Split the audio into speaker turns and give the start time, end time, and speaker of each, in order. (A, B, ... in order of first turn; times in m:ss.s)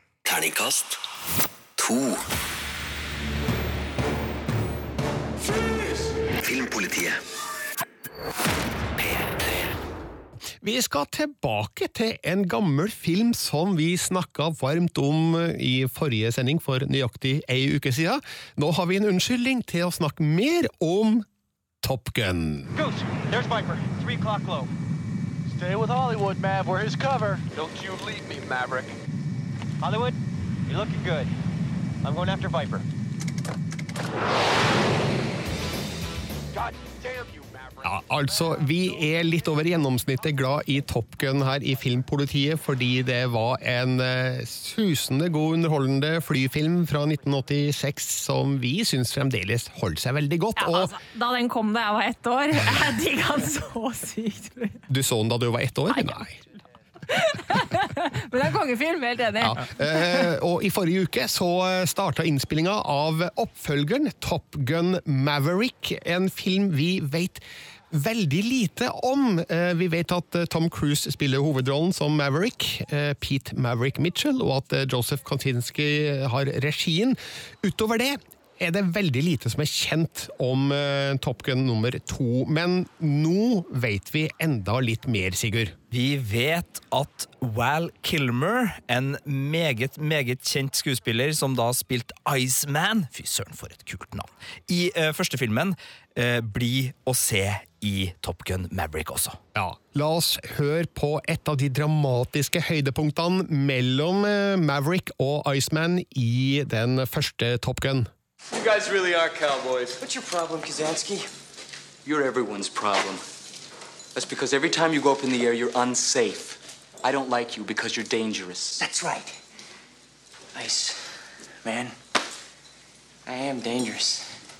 0:00.2-0:01.0 A
0:01.8-0:02.2 A
0:06.4-0:07.2 A
0:09.0-0:09.7 A
0:10.6-0:21.2 B
0:21.8-0:22.7 B
0:22.7-0:24.7 C
0:25.5-0:28.9 C
0:29.8-0:30.2 C
0:30.7-0:31.3 C
0:32.0-0:32.8 C
0:36.5-0:37.9 C
0:37.8-0:50.9 B
0:50.6-0:54.8 D
0:54.9-0:56.4 B
0:55.9-0:56.2 D
0:57.1-1:00.2 D
0:59.4-1:25.8 B
1:25.9-1:39.4 E
1:39.5-1:48.1 B
1:48.5-1:51.3 F
1:52.0-1:53.2 F
1:54.1-1:59.3 F
2:00.5-2:00.9 F
2:01.6-2:01.9 F
2:03.3-2:04.2 F